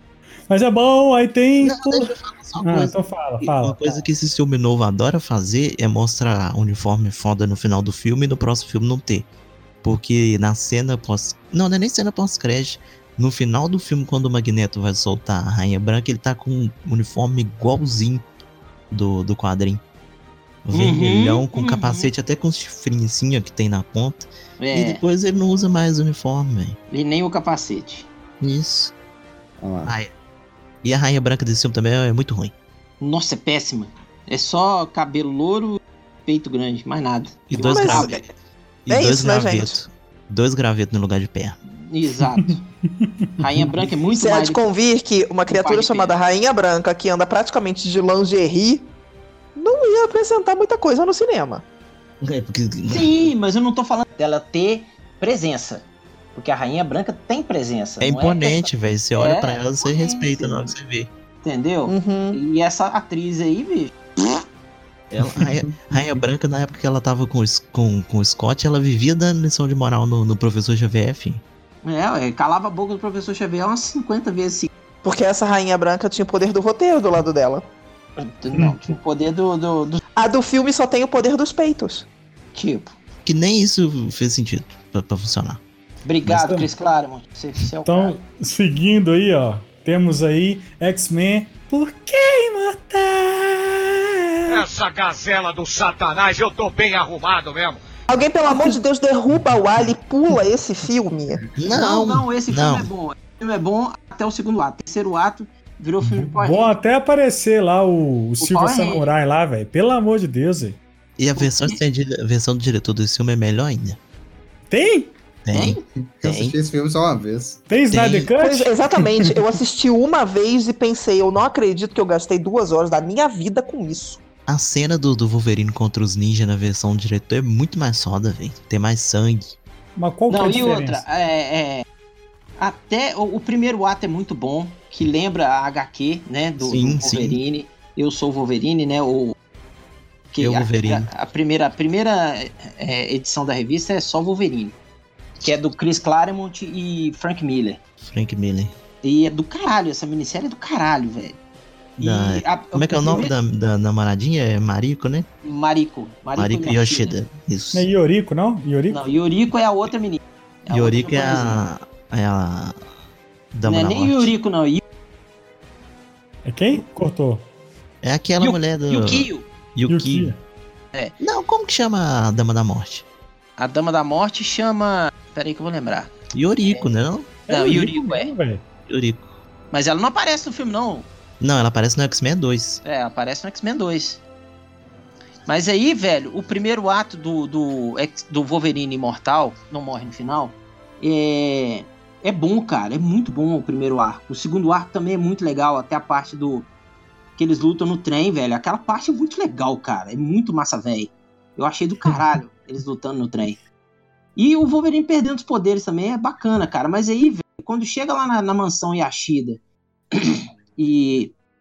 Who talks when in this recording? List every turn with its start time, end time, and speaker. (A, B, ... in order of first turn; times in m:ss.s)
0:00.5-0:04.0 A
0:01.6-0:09.3 B
0:09.8-0:18.2 B
0:18.9-0:19.8 B
0:20.6-0:26.8 B
0:20.7-0:22.1 C
0:24.6-0:25.0 C
0:26.9-0:28.1 C
0:28.4-0:28.9 B
0:29.6-0:29.9 D
0:29.8-0:30.1 B
0:30.8-0:32.5 B
0:33.0-0:38.2 C
0:37.5-0:38.2 B
0:37.6-0:38.3 E
0:38.9-0:41.6 B
0:38.9-0:39.8 E
0:41.8-0:42.6 C
0:43.0-0:43.3 A
0:43.4-0:44.6 C
0:44.1-0:48.9 E
0:45.5-0:46.2 C
0:49.6-0:51.6 E
0:52.2-0:53.1 B
0:52.9-1:00.7 C
0:58.0-1:01.1 B
1:01.4-1:04.4 C
1:01.9-1:02.4 E
1:05.1-1:11.4 B
1:05.4-1:05.8 D
1:11.8-1:14.7 C
1:15.0-1:17.7 E
1:18.2-1:20.0 C
1:20.2-1:22.1 E
1:22.5-1:23.0 C
1:23.2-1:25.6 B
1:26.0-1:28.2 C
1:26.3-1:26.7 A
1:27.9-1:34.7 A
1:34.5-1:37.8 F
1:38.1-1:41.5 E
1:41.6-1:42.9 B
1:41.7-1:46.7 C
1:46.0-1:50.8 A
1:48.4-1:49.1 C
1:51.2-1:54.0 B
1:51.4-1:51.8 C
1:54.7-1:55.1 A
1:55.4-1:56.6 B
1:55.5-1:55.8 C
1:56.2-1:57.6 D
1:57.7-1:58.8 A
1:57.9-1:58.3 B
1:58.4-2:04.2 E
2:04.5-2:09.6 B
2:10.0-2:11.0 A
2:10.3-2:11.8 C
2:12.6-2:19.4 C
2:16.6-2:17.4 B
2:20.3-2:24.8 C
2:20.4-2:21.1 B
2:25.4-2:27.8 C
2:28.0-2:28.7 B
2:29.0-2:31.4 C
2:32.0-2:33.3 C
2:32.0-2:35.3 B
2:35.4-2:37.2 C
2:36.4-2:37.9 B
2:37.7-2:39.1 A
2:38.9-2:41.6 C
2:40.7-2:42.8 B
2:43.5-2:44.3 B
2:43.7-2:44.8 C
2:46.5-2:47.4 A
2:48.0-2:50.3 B
2:48.4-2:49.5 C
2:49.9-2:50.4 A
2:51.2-2:53.0 B
2:53.6-2:56.1 C
2:56.3-2:57.4 B
2:56.6-2:56.9 C
2:57.5-2:58.3 C
2:57.5-2:58.6 A
2:58.9-2:59.3 B
2:59.7-3:01.1 C
3:01.4-3:02.8 B
3:02.8-3:04.2 C
3:05.5-3:16.7 C
3:17.4-3:23.6 C
3:24.4-3:29.6 C
3:30.1-3:31.3 C